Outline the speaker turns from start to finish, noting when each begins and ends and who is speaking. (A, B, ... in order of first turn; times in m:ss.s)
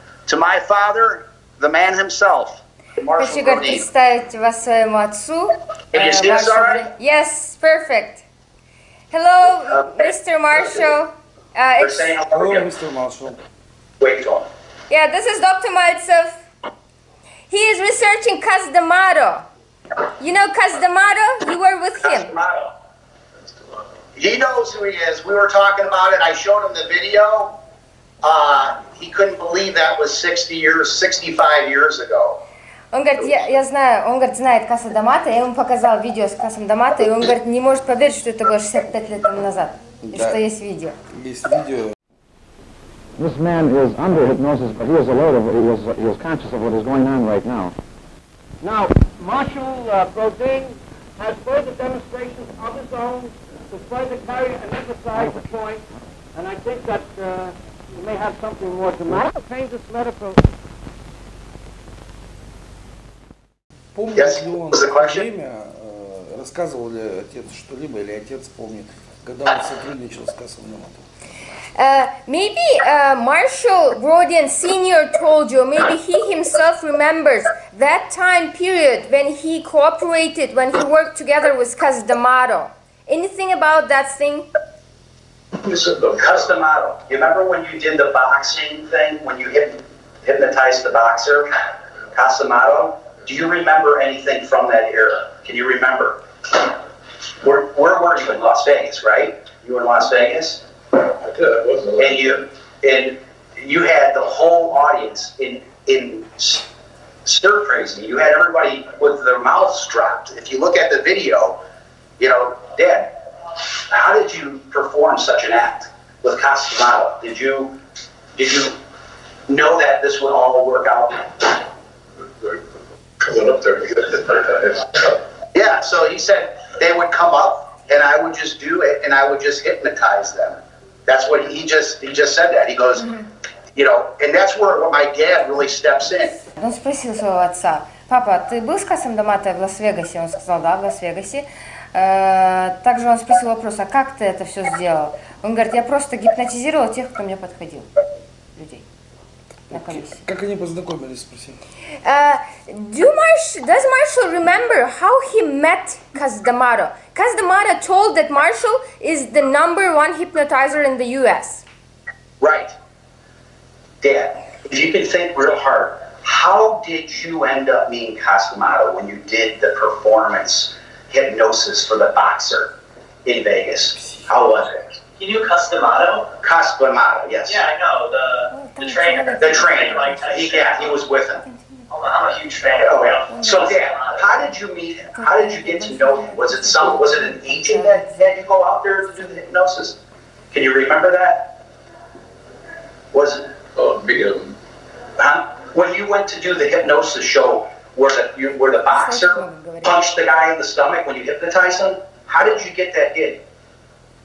0:00.3-0:03.8 A
0:03.2-0:08.2 B
0:05.9-0:06.8 A
0:09.1-0:12.2 B
0:10.5-0:10.8 A
0:11.8-0:12.7 A
0:12.3-0:13.4 C
0:14.0-0:14.4 A
0:14.9-0:16.4 B
0:17.5-0:19.5 B
0:20.2-0:22.3 B
0:22.0-0:22.7 A
0:24.2-0:27.6 A
0:28.2-0:32.4 A
0:32.9-0:41.0 B
0:40.0-0:40.4 C
0:41.1-0:41.9 C
0:43.2-0:47.7 D
0:48.6-0:55.8 E
0:55.2-0:55.4 D
0:56.4-1:00.4 E
1:03.9-1:11.0 C
1:04.2-1:05.3 A
1:11.8-1:24.5 B
1:25.6-1:31.5 A
1:32.1-1:36.7 A
1:37.4-1:40.6 A
1:41.2-1:42.3 F
1:42.0-1:46.6 A
1:47.2-1:51.6 A
1:52.2-1:57.8 A
1:58.4-1:58.7 A
1:59.5-2:01.6 A
2:02.4-2:02.6 F
2:03.2-2:05.1 F
2:05.5-2:13.1 A
2:13.7-2:16.4 A
2:16.5-2:27.9 B
2:28.5-2:28.8 B
2:29.7-2:31.6 C
2:29.7-2:30.2 B
2:32.0-2:41.6 B
2:42.4-2:42.7 A
2:44.0-2:52.7 A
2:53.2-2:54.8 A
2:53.9-2:54.3 C
2:54.4-2:54.6 G
2:55.2-2:56.3 G
2:56.4-2:57.6 A
2:57.5-3:01.0 G
2:58.5-3:00.4 B
2:59.4-3:01.4 A
3:01.3-3:01.9 B
3:01.9-3:04.3 G
3:02.7-3:10.0 A
3:03.3-3:03.6 B
3:05.1-3:08.4 B
3:09.0-3:09.5 B
3:10.5-3:11.5 A
3:13.1-3:13.5 A
3:13.8-3:14.5 F
3:15.2-3:23.4 A
3:18.9-3:20.0 B